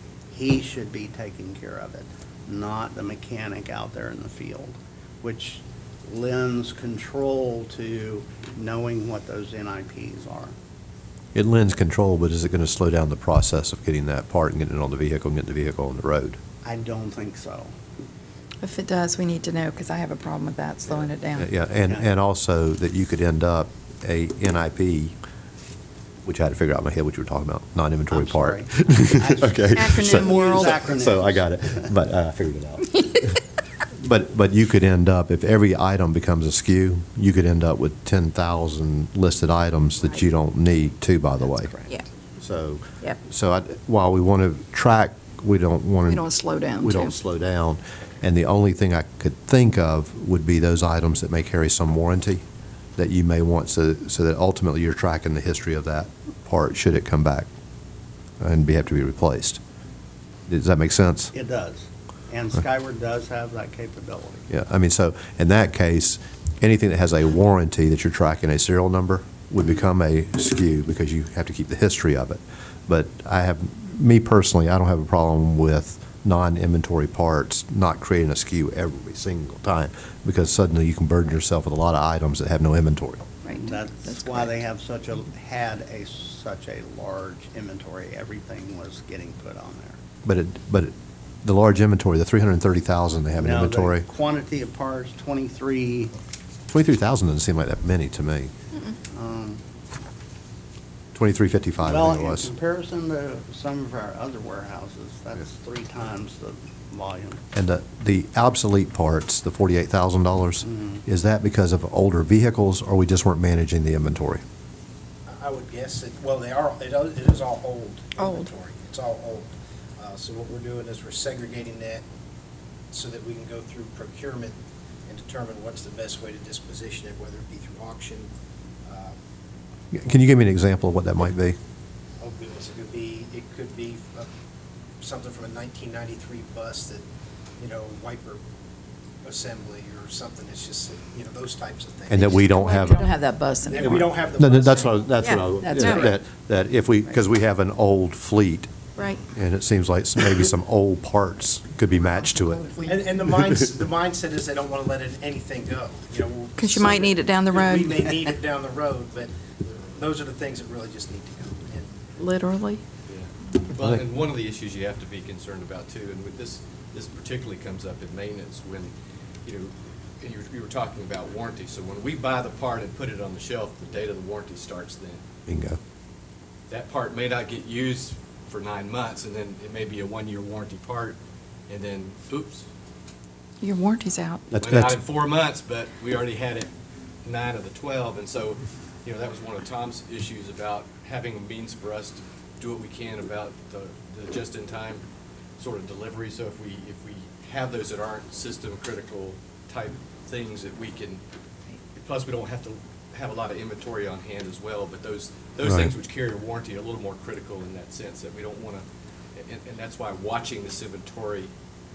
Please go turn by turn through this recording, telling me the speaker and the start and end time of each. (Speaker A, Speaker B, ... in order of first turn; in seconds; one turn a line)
Speaker A: 0.3-10.6
Speaker B: 11.3-16.4
Speaker A: 16.6-17.8
Speaker C: 18.6-21.5
Speaker B: 21.4-25.1
Speaker B: 26.2-33.4
Speaker A: 28.1-31.9
Speaker C: 29.7-30.7
Speaker B: 34.0-41.7
Speaker A: 41.4-42.1
Speaker B: 42.4-46.3
Speaker C: 46.1-47.1
Speaker B: 46.8-52.4
Speaker B: 53.0-57.5
Speaker B: 58.4-59.6
Speaker B: 60.5-61.3
Speaker A: 61.3-64.5
Speaker B: 64.5-83.3
Speaker C: 83.4-84.5
Speaker A: 83.6-90.0
Speaker B: 90.2-94.1
Speaker A: 93.4-96.1
Speaker B: 96.7-98.5
Speaker A: 99.1-99.6
Speaker B: 101.1-102.5
Speaker A: 101.8-107.4
Speaker B: 107.5-114.4
Speaker A: 110.6-111.0
Speaker D: 115.3-122.0
Speaker C: 118.2-118.5
Speaker D: 122.9-128.3
Speaker D: 128.8-129.2
Speaker B: 129.9-131.6
Speaker D: 132.2-134.3
Speaker D: 135.0-137.0
Speaker D: 137.6-138.4
Speaker D: 139.2-142.6
Speaker B: 142.1-143.1
Speaker C: 142.4-144.0
Speaker D: 143.7-146.2
Speaker B: 143.8-148.7
Speaker C: 145.2-146.1
Speaker C: 149.0-149.2
Speaker B: 149.3-152.8
Speaker D: 152.9-162.0
Speaker C: 156.6-158.3
Speaker C: 162.2-162.8
Speaker E: 163.1-168.9
Speaker E: 169.4-175.2
Speaker B: 175.5-175.8
Speaker E: 176.7-181.2
Speaker E: 181.7-182.7
Speaker C: 183.6-184.4
Speaker B: 184.5-185.0
Speaker E: 184.6-186.7
Speaker E: 187.2-195.0
Speaker E: 195.6-201.2
Speaker E: 201.9-211.5
Speaker B: 205.6-205.9